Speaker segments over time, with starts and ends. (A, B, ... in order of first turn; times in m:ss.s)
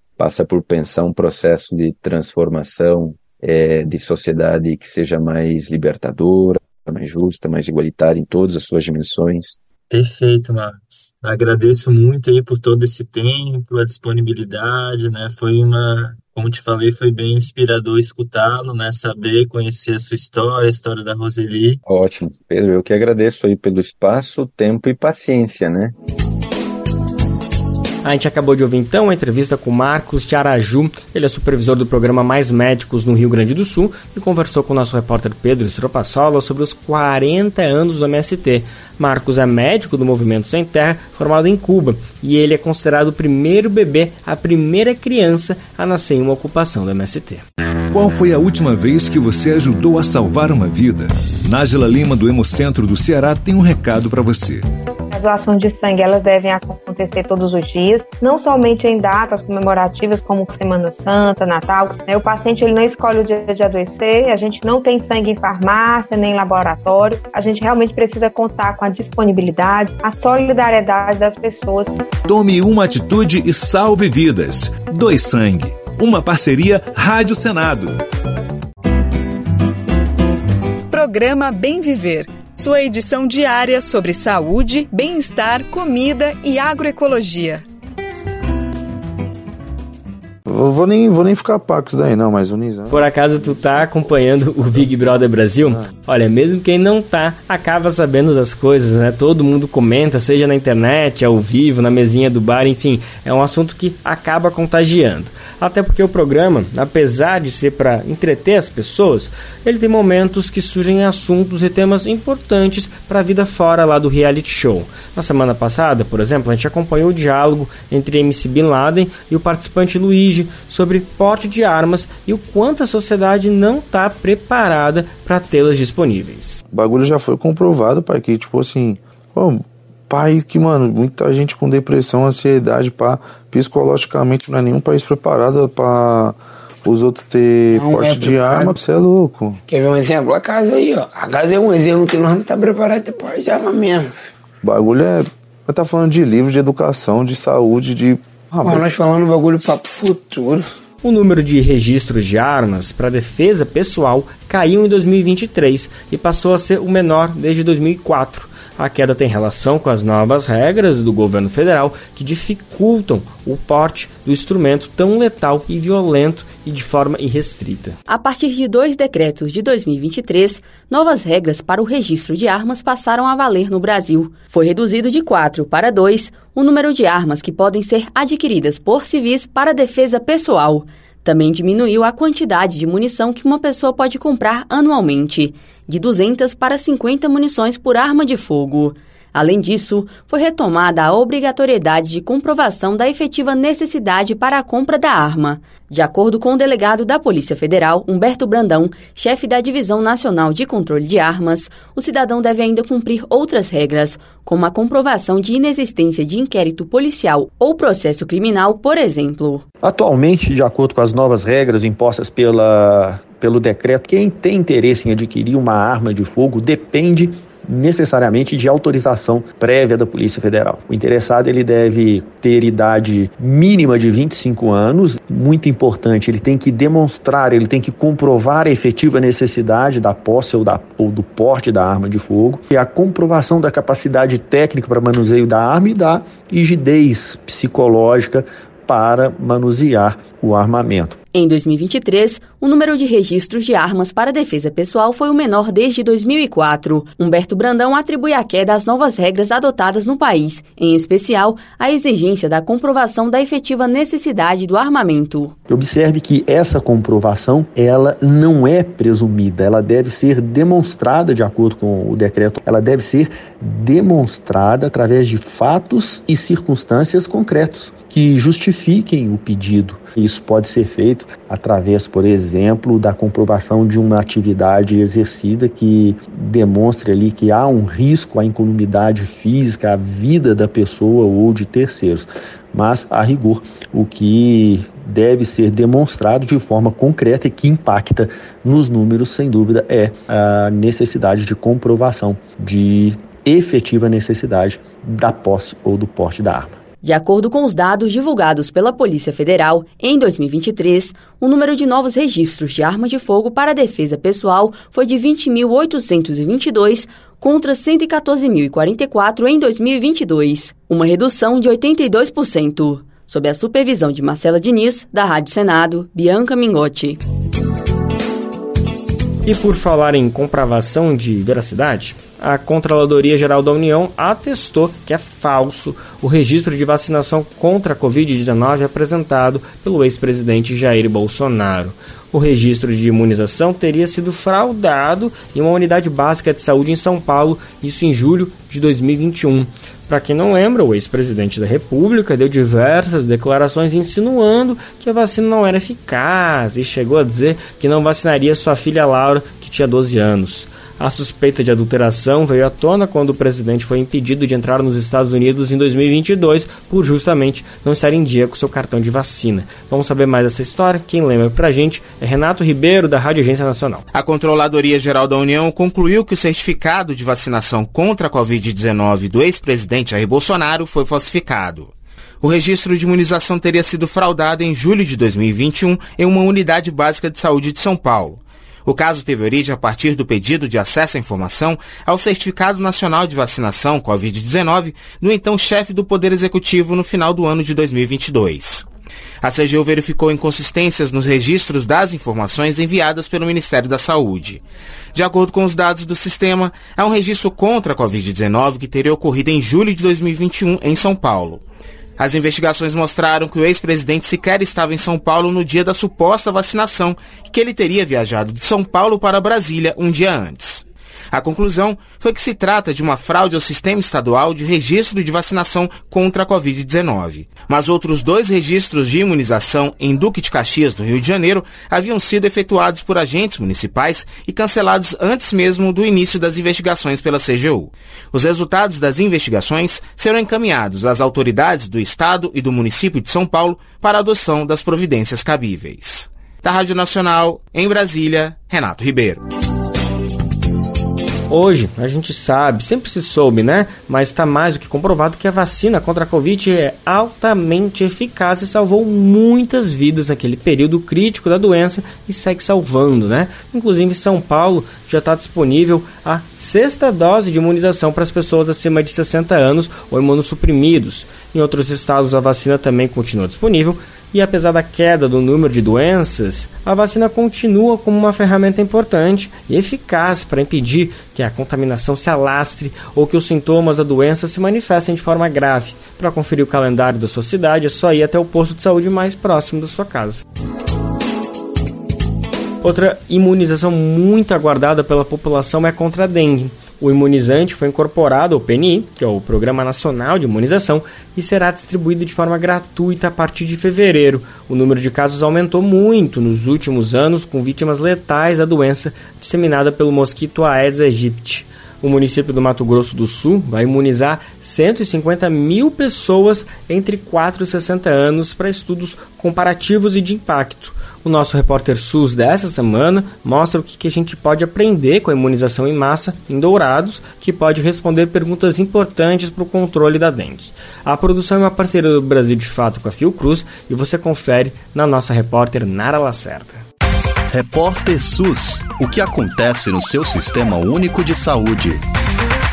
0:00.2-0:09.6 A
0:09.9-0:21.8 B
0:21.9-0:25.9 A
0:28.0-0:47.4 C
0:47.9-0:54.6 D
0:55.1-1:11.9 E
1:12.3-1:18.0 D
1:20.9-1:27.6 F
1:30.5-1:33.0 G
1:32.9-2:06.6 C
2:06.7-2:19.6 G
2:17.7-2:18.8 H
2:19.7-2:24.2 H
2:24.6-2:28.8 G
2:28.6-2:30.6 H
2:31.0-2:48.0 C
2:48.1-3:29.6 I
3:29.8-4:01.2 J
4:01.3-4:15.6 I
4:15.7-4:56.8 J
4:57.0-5:17.2 I
5:19.4-6:04.0 C
6:04.1-6:11.9 K
6:12.4-6:28.8 K
6:29.4-6:34.6 K
6:35.2-6:41.6 K
6:42.2-7:19.4 K
7:21.5-8:00.4 C
8:02.8-8:46.8 C
8:47.5-8:52.0 L